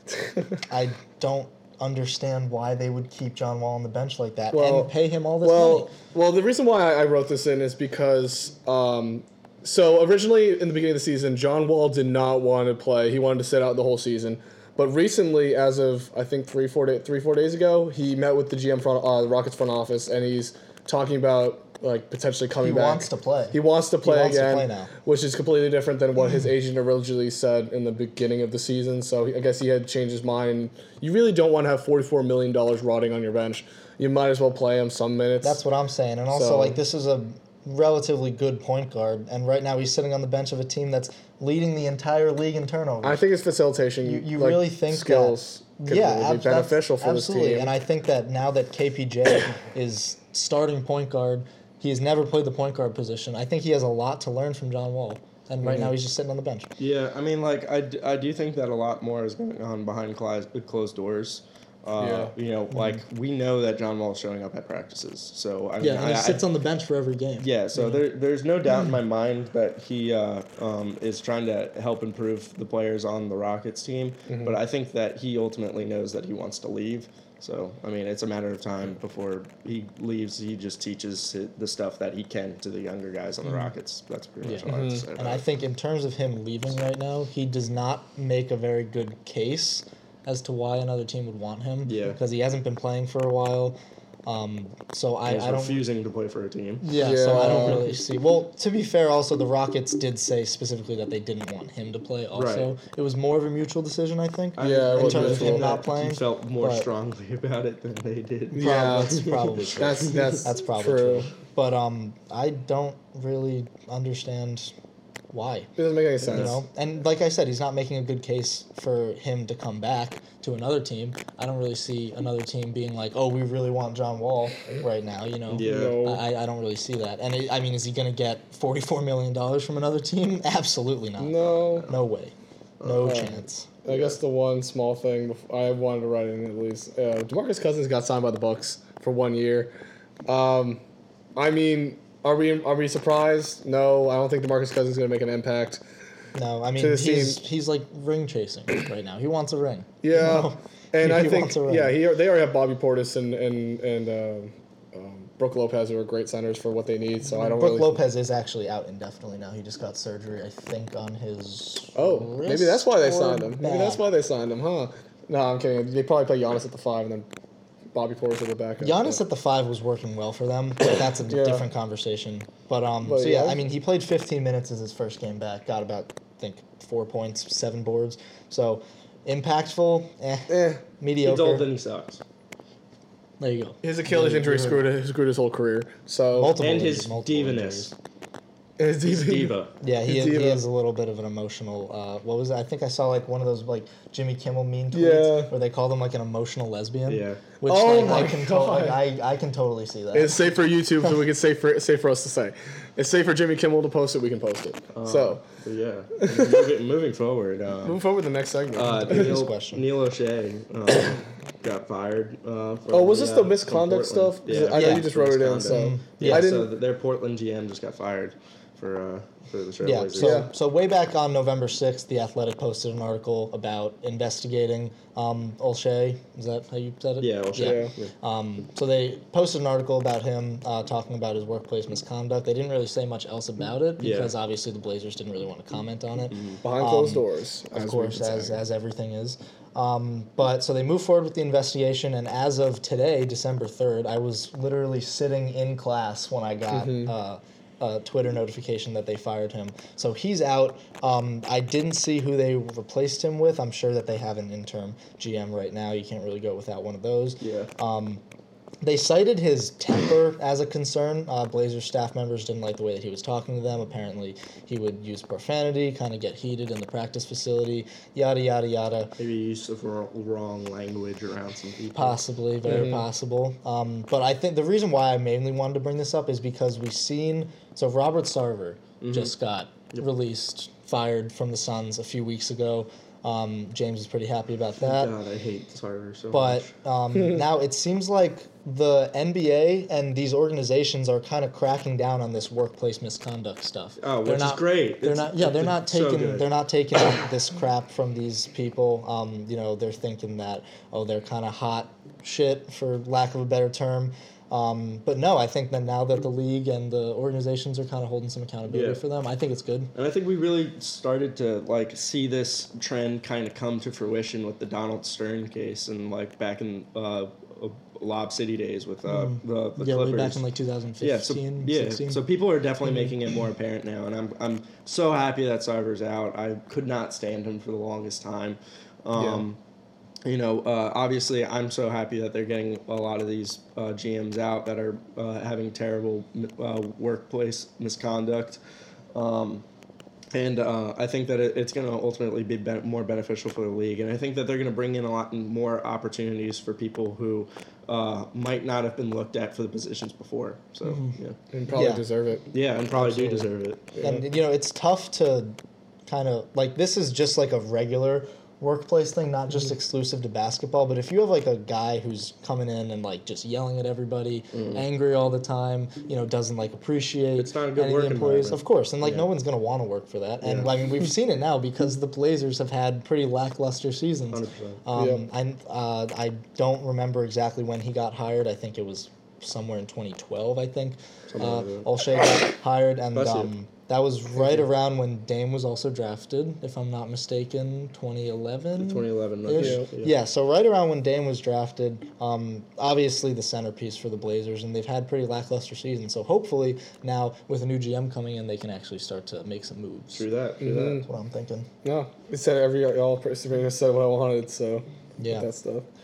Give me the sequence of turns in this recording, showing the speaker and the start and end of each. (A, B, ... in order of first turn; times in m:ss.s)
0:00.1-0:00.6 A
0:00.7-0:05.9 B
0:04.5-0:35.6 A
0:22.6-0:24.9 B
0:35.4-0:43.2 B
0:36.3-0:36.8 A
0:43.0-0:47.7 A
0:44.0-0:56.7 B
0:55.6-0:55.9 A
0:56.8-1:06.4 C
1:02.0-1:02.3 A
1:02.7-1:03.0 B
1:05.8-1:08.0 B
1:07.4-1:25.4 C
1:14.3-1:14.6 A
1:24.4-1:35.8 B
1:24.7-1:25.0 A
1:31.8-1:32.2 C
1:35.3-1:36.9 C
1:36.8-1:46.9 B
1:36.9-1:37.9 A
1:37.4-1:37.7 C
1:42.3-1:42.7 C
1:44.6-1:50.4 C
1:44.6-1:45.7 A
1:48.5-1:51.3 A
1:48.6-1:54.7 B
1:55.3-1:55.7 B
1:55.8-1:56.6 A
1:56.2-1:56.6 C
1:56.3-2:13.9 B
2:05.5-2:06.0 C
2:05.6-2:06.2 A
2:11.2-2:11.9 A
2:12.8-2:13.3 C
2:13.0-2:19.7 A
2:20.2-2:20.8 A
2:21.4-2:25.8 A
2:26.3-2:31.9 B
2:26.8-2:27.4 A
2:30.0-2:38.0 A
2:37.3-2:44.0 B
2:41.9-2:47.3 A
2:47.9-2:49.2 A
2:48.8-3:01.7 B
2:51.3-2:51.7 A
2:53.0-2:53.6 A
3:00.5-3:00.8 A
3:01.2-3:02.2 C
3:03.4-3:04.8 B
3:03.8-3:06.6 A
3:06.4-3:07.9 B
3:06.6-3:07.9 C
3:08.8-3:09.5 A
3:09.1-3:09.7 C
3:09.8-3:20.6 B
3:10.0-3:10.6 A
3:14.9-3:15.5 A
3:17.1-3:17.4 C
3:17.6-3:19.0 A
3:20.1-3:25.4 A
3:24.9-3:28.0 C
3:26.2-3:26.6 A
3:27.8-3:29.3 A
3:28.7-3:40.5 C
3:28.9-3:29.8 B
3:32.9-3:36.7 A
3:34.7-3:35.1 B
3:35.6-3:36.5 B
3:39.8-4:18.2 B
3:40.2-3:40.5 A
3:47.2-3:48.1 C
3:47.6-3:47.9 A
3:54.0-3:54.3 C
3:56.3-3:56.6 C
3:56.6-3:58.6 A
4:06.7-4:07.1 A
4:17.4-4:17.7 C
4:18.8-4:29.1 B
4:29.2-4:32.2 C
4:31.9-4:45.1 B
4:32.6-4:33.1 A
4:39.0-4:39.3 C
4:44.8-4:46.7 C
4:46.3-5:09.9 B
4:54.0-4:56.4 C
5:08.7-5:09.0 C
5:09.9-5:20.4 C
5:19.0-5:22.2 B
5:21.0-5:29.6 C
5:29.1-5:29.4 A
5:30.2-5:38.6 C
5:39.1-5:39.6 C
5:40.3-5:51.4 C
5:50.8-5:51.2 B
5:51.5-5:53.4 A
5:51.7-5:52.0 B
5:52.5-5:53.9 C
5:53.9-5:54.2 A
5:54.0-6:40.2 B
6:04.5-6:04.8 C
6:07.4-6:09.2 C
6:10.4-6:10.7 C
6:14.3-6:14.8 C
6:14.9-6:15.2 A
6:21.3-6:21.9 C
6:23.1-6:23.5 C
6:24.4-6:24.6 A
6:28.8-6:30.2 C
6:29.5-6:29.9 A
6:40.1-6:41.0 C
6:40.6-6:41.1 A
6:41.0-6:41.7 B
6:41.8-6:45.9 A
6:45.2-6:45.5 B